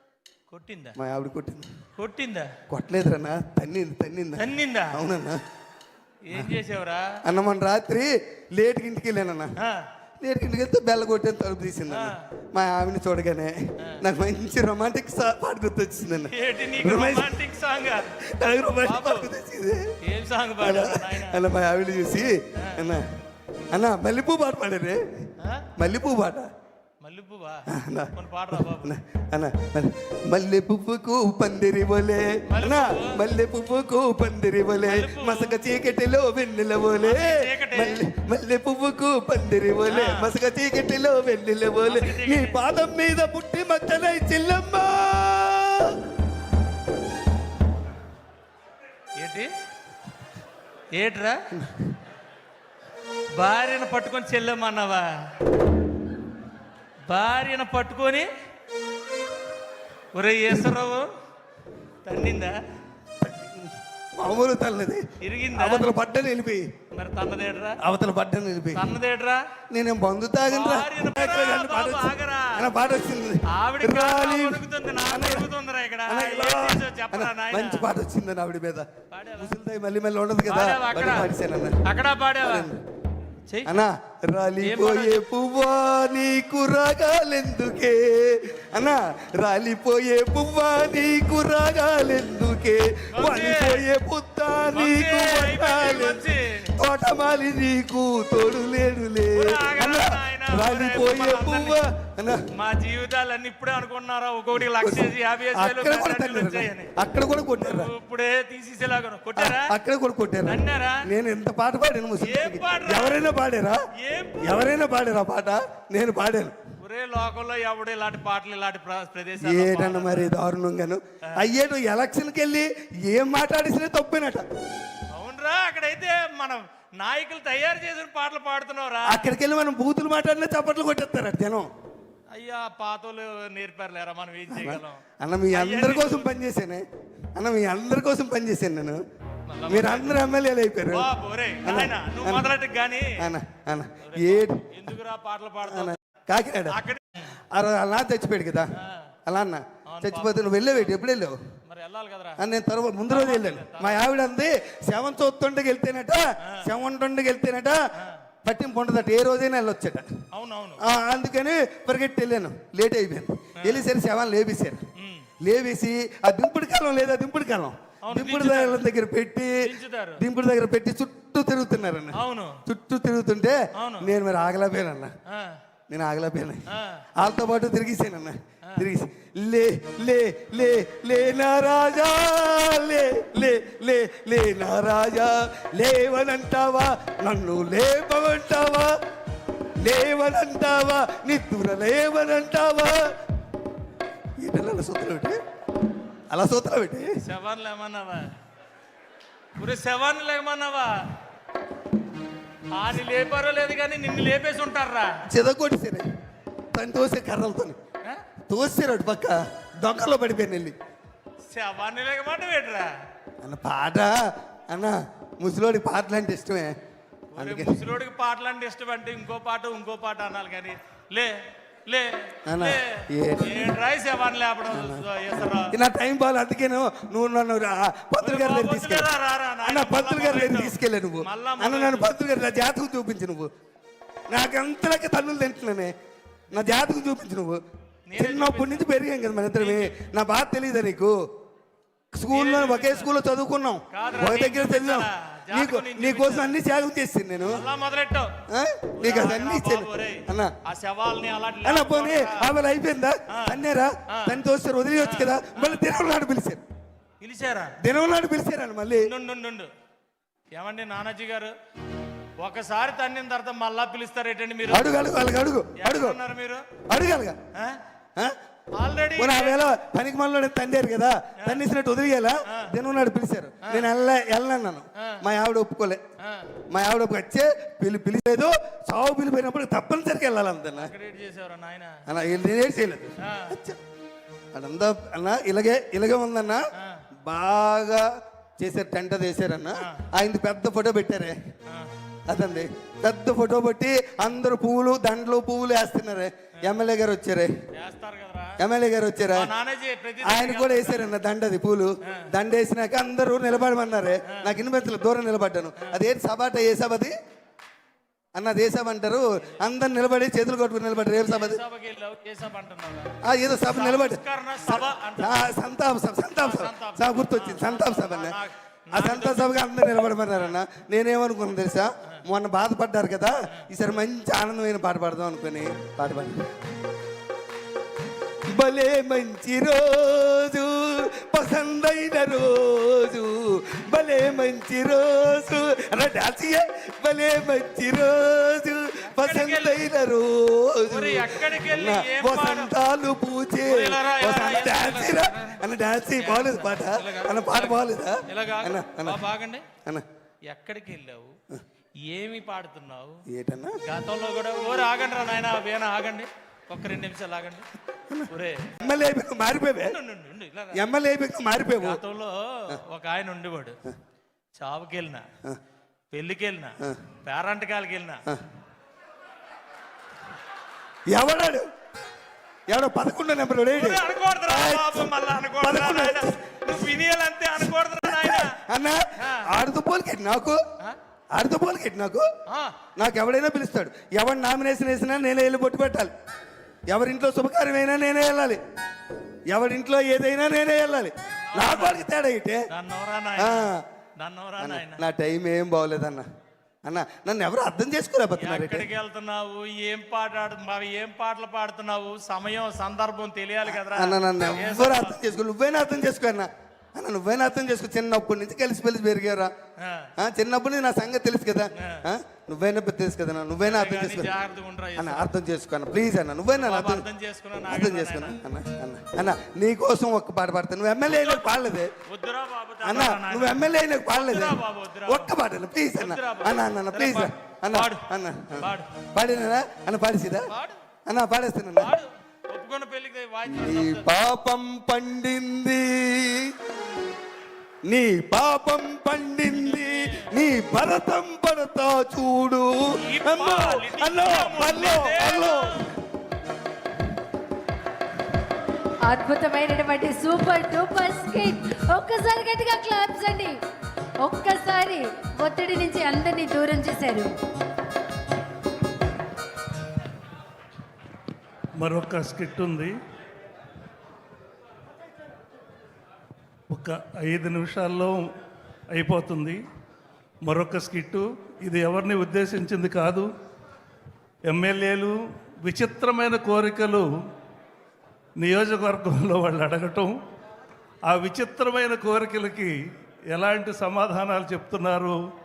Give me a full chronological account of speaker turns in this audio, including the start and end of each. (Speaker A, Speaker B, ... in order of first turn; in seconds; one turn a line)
Speaker A: 0.5-1.0
Speaker B: 1.0-1.7
Speaker A: 2.0-2.6
Speaker B: 2.7-5.4
Speaker A: 4.4-5.0
Speaker A: 6.2-7.2
Speaker B: 7.2-9.5
Speaker A: 9.6-9.9
Speaker B: 10.2-17.4
Speaker A: 11.9-12.2
Speaker A: 16.3-18.1
Speaker B: 18.2-19.8
Speaker A: 18.8-19.3
Speaker A: 20.0-21.4
Speaker B: 20.6-23.1
Speaker A: 22.6-22.8
Speaker B: 23.7-25.0
Speaker A: 25.4-25.7
Speaker B: 25.8-26.5
Speaker A: 27.0-28.9
Speaker B: 27.7-45.9
Speaker A: 32.5-33.2
Speaker A: 34.8-35.6
Speaker A: 37.0-38.0
Speaker A: 39.9-40.3
Speaker A: 41.8-42.6
Speaker A: 49.2-49.5
Speaker A: 51.0-51.4
Speaker B: 51.6-51.9
Speaker A: 53.4-55.1
Speaker A: 57.1-58.3
Speaker A: 60.1-61.1
Speaker A: 62.0-62.5
Speaker B: 63.2-65.0
Speaker A: 65.2-65.9
Speaker B: 65.5-66.7
Speaker A: 66.9-67.8
Speaker B: 67.8-68.9
Speaker A: 68.7-69.4
Speaker B: 69.7-75.5
Speaker A: 70.5-72.7
Speaker A: 73.5-77.8
Speaker B: 76.0-81.8
Speaker A: 79.1-79.5
Speaker A: 80.4-81.3
Speaker A: 81.8-82.7
Speaker B: 82.4-82.8
Speaker A: 83.5-83.7
Speaker B: 83.6-102.4
Speaker A: 84.6-85.2
Speaker A: 93.1-93.9
Speaker A: 94.7-96.7
Speaker A: 99.3-101.8
Speaker A: 102.5-106.9
Speaker B: 104.5-107.9
Speaker A: 107.5-109.7
Speaker B: 109.3-113.8
Speaker A: 110.4-111.0
Speaker A: 112.2-113.2
Speaker A: 114.0-114.7
Speaker B: 114.4-116.5
Speaker A: 116.8-120.3
Speaker B: 119.4-124.4
Speaker A: 125.1-129.3
Speaker B: 129.1-131.7
Speaker A: 132.3-136.3
Speaker B: 134.5-136.8
Speaker B: 137.3-139.0
Speaker A: 139.5-140.2
Speaker B: 139.7-142.5
Speaker A: 140.9-143.3
Speaker B: 143.2-144.6
Speaker A: 144.0-145.9
Speaker B: 145.6-146.8
Speaker A: 146.7-147.3
Speaker B: 147.5-148.7
Speaker A: 148.8-149.1
Speaker B: 149.2-151.3
Speaker A: 149.9-150.9
Speaker A: 151.7-152.4
Speaker B: 152.4-157.8
Speaker A: 153.1-154.0
Speaker A: 156.4-156.7
Speaker B: 158.4-160.1
Speaker A: 160.3-160.8
Speaker B: 160.8-164.8
Speaker A: 163.6-163.8
Speaker A: 165.0-165.3
Speaker B: 165.4-169.6
Speaker A: 168.0-168.8
Speaker A: 169.6-170.2
Speaker B: 170.2-175.1
Speaker A: 172.1-172.6
Speaker A: 173.7-174.1
Speaker A: 175.3-175.6
Speaker B: 175.9-176.6
Speaker A: 176.7-177.1
Speaker B: 177.2-188.9
Speaker B: 189.8-193.0
Speaker B: 194.4-195.3
Speaker B: 196.3-197.2
Speaker A: 197.2-198.3
Speaker A: 199.6-200.9
Speaker A: 202.7-205.2
Speaker B: 205.3-206.0
Speaker B: 206.7-207.8
Speaker B: 208.5-210.7
Speaker A: 211.5-212.9
Speaker B: 213.4-214.1
Speaker B: 214.7-216.7
Speaker A: 217.3-221.3
Speaker B: 217.4-217.8
Speaker A: 221.8-225.8
Speaker B: 222.5-223.8
Speaker B: 224.7-229.1
Speaker A: 228.2-232.2
Speaker B: 229.6-233.5
Speaker B: 234.3-235.9
Speaker B: 236.5-237.6
Speaker A: 238.1-238.9
Speaker B: 238.2-241.1
Speaker A: 239.6-240.0
Speaker B: 242.1-247.6
Speaker A: 242.3-243.1
Speaker A: 243.9-246.6
Speaker A: 247.5-248.4
Speaker B: 248.5-250.5
Speaker A: 249.0-252.5
Speaker B: 251.6-256.6
Speaker A: 253.3-254.4
Speaker A: 255.0-255.8
Speaker A: 257.2-257.7
Speaker B: 257.8-259.1
Speaker A: 259.0-259.7
Speaker A: 260.5-261.5
Speaker A: 262.4-265.0
Speaker B: 264.7-266.2
Speaker A: 265.7-266.7
Speaker B: 266.9-267.4
Speaker A: 267.5-267.8
Speaker A: 268.8-269.6
Speaker B: 269.2-276.0
Speaker A: 272.5-272.7
Speaker A: 273.6-273.9
Speaker A: 275.0-275.2
Speaker A: 276.2-276.5
Speaker B: 276.7-280.9
Speaker A: 280.7-282.0
Speaker B: 282.1-283.8
Speaker A: 283.2-283.6
Speaker B: 284.5-286.6
Speaker A: 286.8-287.0
Speaker B: 287.2-288.1
Speaker B: 288.6-291.4
Speaker A: 289.8-290.1
Speaker A: 291.7-291.9
Speaker B: 292.3-297.5
Speaker A: 297.7-298.6
Speaker B: 298.6-299.5
Speaker A: 299.3-301.1
Speaker B: 300.2-307.1
Speaker A: 304.3-304.5
Speaker B: 308.3-311.6
Speaker A: 311.2-313.1
Speaker B: 313.2-318.4
Speaker A: 313.7-315.5
Speaker A: 316.4-319.5
Speaker B: 318.9-326.4
Speaker B: 328.5-349.2
Speaker A: 339.0-339.9
Speaker A: 340.9-342.7
Speaker A: 343.6-345.6
Speaker A: 346.1-349.7
Speaker A: 350.5-351.4
Speaker A: 352.0-353.2
Speaker B: 353.3-353.7
Speaker A: 353.8-357.7
Speaker B: 358.1-360.0
Speaker A: 358.3-358.9
Speaker A: 359.8-360.8
Speaker B: 360.7-362.0
Speaker A: 361.8-363.8
Speaker A: 364.6-365.3
Speaker A: 366.1-368.2
Speaker B: 371.1-371.6
Speaker B: 372.7-376.7
Speaker A: 373.7-378.6
Speaker B: 377.6-380.6
Speaker A: 379.2-379.5
Speaker B: 381.3-382.2
Speaker A: 382.5-382.8
Speaker B: 383.0-386.1
Speaker B: 386.9-388.6
Speaker B: 389.5-392.6
Speaker A: 391.4-392.1
Speaker A: 392.7-395.0
Speaker B: 393.4-393.8
Speaker B: 394.6-396.2
Speaker B: 396.8-398.9
Speaker A: 398.4-405.3
Speaker B: 403.6-409.5
Speaker A: 409.8-410.1
Speaker B: 410.2-414.3
Speaker A: 411.8-412.0
Speaker A: 413.6-415.3
Speaker B: 415.0-417.1
Speaker A: 416.5-418.4
Speaker B: 417.6-421.9
Speaker A: 421.1-425.3
Speaker B: 422.8-430.4
Speaker A: 425.9-429.0
Speaker A: 430.5-430.8
Speaker B: 431.1-431.9
Speaker A: 431.8-434.1
Speaker B: 433.5-436.5
Speaker B: 437.8-442.7
Speaker A: 439.5-440.3
Speaker A: 443.0-445.9
Speaker B: 443.2-445.9
Speaker C: 449.1-453.6
Speaker C: 454.2-457.4
Speaker D: 461.8-462.9
Speaker D: 466.7-468.2
Speaker D: 468.9-469.6
Speaker D: 470.4-473.3
Speaker D: 474.5-477.1
Speaker D: 478.4-480.1
Speaker D: 481.1-482.8
Speaker D: 483.3-485.2